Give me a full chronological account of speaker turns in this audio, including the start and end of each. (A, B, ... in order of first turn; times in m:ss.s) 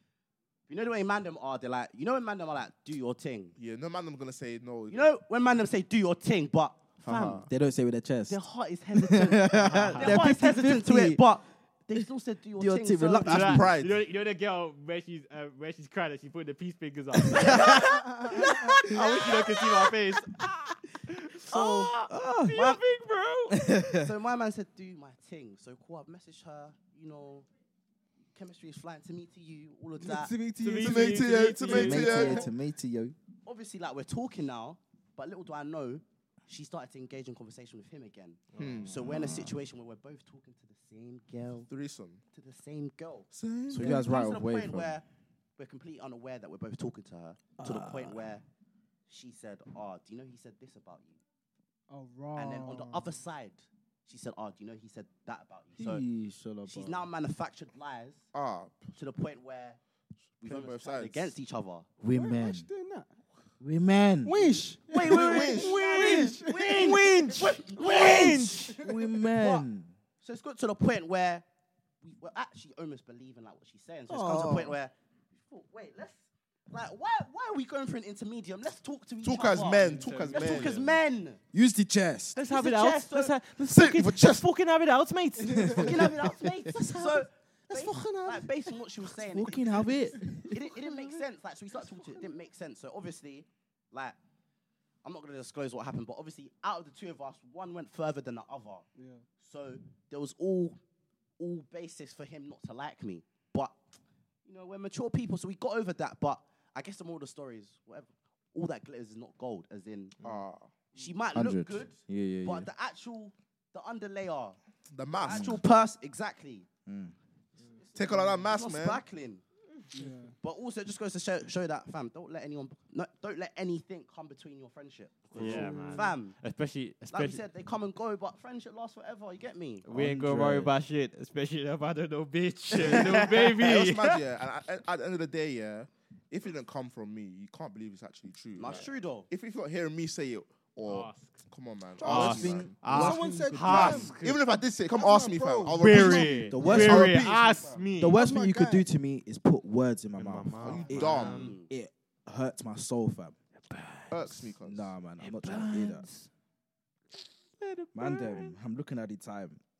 0:00.7-0:03.5 A
0:03.6-0:05.1 B
0:04.9-0:07.5 A
0:07.0-0:07.5 B
0:07.4-0:08.4 C
0:08.3-0:13.6 A
0:08.9-0:11.2 C
0:09.6-0:10.2 D
0:11.9-0:13.7 C
0:13.2-0:23.6 D
0:13.3-0:14.0 B
0:17.2-0:19.0 C
0:17.9-0:18.7 E
0:18.9-0:19.6 A
0:21.5-0:22.0 A
0:22.0-0:22.7 C
0:22.5-0:22.8 A
0:23.5-0:24.1 C
0:23.9-0:27.5 A
0:28.3-0:30.3 A
0:30.0-0:32.4 E
0:30.6-0:32.4 D
0:30.8-0:32.4 B
0:31.7-0:33.2 C
0:33.4-0:41.7 A
0:38.5-0:38.9 D
0:38.6-0:39.0 B
0:38.9-0:39.6 C
0:41.7-0:42.2 B
0:42.3-0:45.0 A
0:43.3-0:44.0 B
0:43.7-0:45.0 C
0:45.6-0:48.4 A
0:47.6-0:48.3 C
0:49.1-0:51.2 A
0:51.9-0:53.2 E
0:52.4-0:56.0 A
0:55.8-0:57.1 C
0:56.6-0:58.3 A
0:58.3-0:59.0 B
0:59.0-0:59.8 A
1:00.4-1:01.3 B
1:00.4-1:01.9 A
1:02.0-1:02.6 C
1:02.1-1:03.1 E
1:03.6-1:04.6 C
1:04.2-1:07.0 E
1:04.9-1:08.5 A
1:05.1-1:06.0 B
1:05.5-1:08.8 D
1:07.9-1:09.9 C
1:08.7-1:09.0 E
1:09.2-1:09.6 A
1:10.2-1:11.5 A
1:12.0-1:21.4 A
1:14.1-1:14.7 E
1:14.1-1:14.7 C
1:19.2-1:21.0 B
1:19.8-1:20.8 D
1:21.5-1:22.4 C
1:22.3-1:25.7 D
1:22.4-1:23.3 A
1:23.8-1:24.2 B
1:25.4-1:26.1 E
1:25.5-1:26.1 C
1:25.7-1:34.2 A
1:26.6-1:28.8 E
1:29.2-1:30.5 C
1:30.1-1:31.2 E
1:31.8-1:32.3 E
1:35.0-1:38.8 A
1:39.0-1:39.2 E
1:39.4-1:40.8 A
1:41.4-1:43.8 A
1:44.4-1:50.2 A
1:50.2-1:50.7 B
1:50.9-1:54.6 A
1:51.3-1:52.7 C
1:54.9-1:55.6 B
1:55.2-1:56.7 A
1:55.3-1:55.6 C
1:56.8-1:57.1 C
1:57.8-1:59.4 A
1:57.9-1:59.0 B
1:59.9-2:00.3 E
2:00.4-2:06.4 A
2:05.3-2:07.4 D
2:05.4-2:06.1 E
2:07.1-2:09.9 A
2:09.8-2:14.2 D
2:09.9-2:10.7 C
2:12.7-2:13.5 A
2:12.8-2:23.0 B
2:18.6-2:19.3 A
2:20.8-2:21.4 D
2:22.0-2:24.1 C
2:22.0-2:24.5 D
2:22.6-2:24.1 E
2:23.6-2:27.9 B
2:24.9-2:27.1 E
2:25.7-2:28.2 D
2:26.4-2:27.3 C
2:28.0-2:33.4 C
2:28.1-2:28.9 E
2:30.1-2:31.6 D
2:30.6-2:31.6 B
2:30.9-2:31.7 A
2:33.6-2:34.5 D
2:34.1-2:34.9 B
2:34.6-2:36.0 C
2:35.2-2:36.3 D
2:37.5-2:38.6 D
2:37.9-2:39.6 C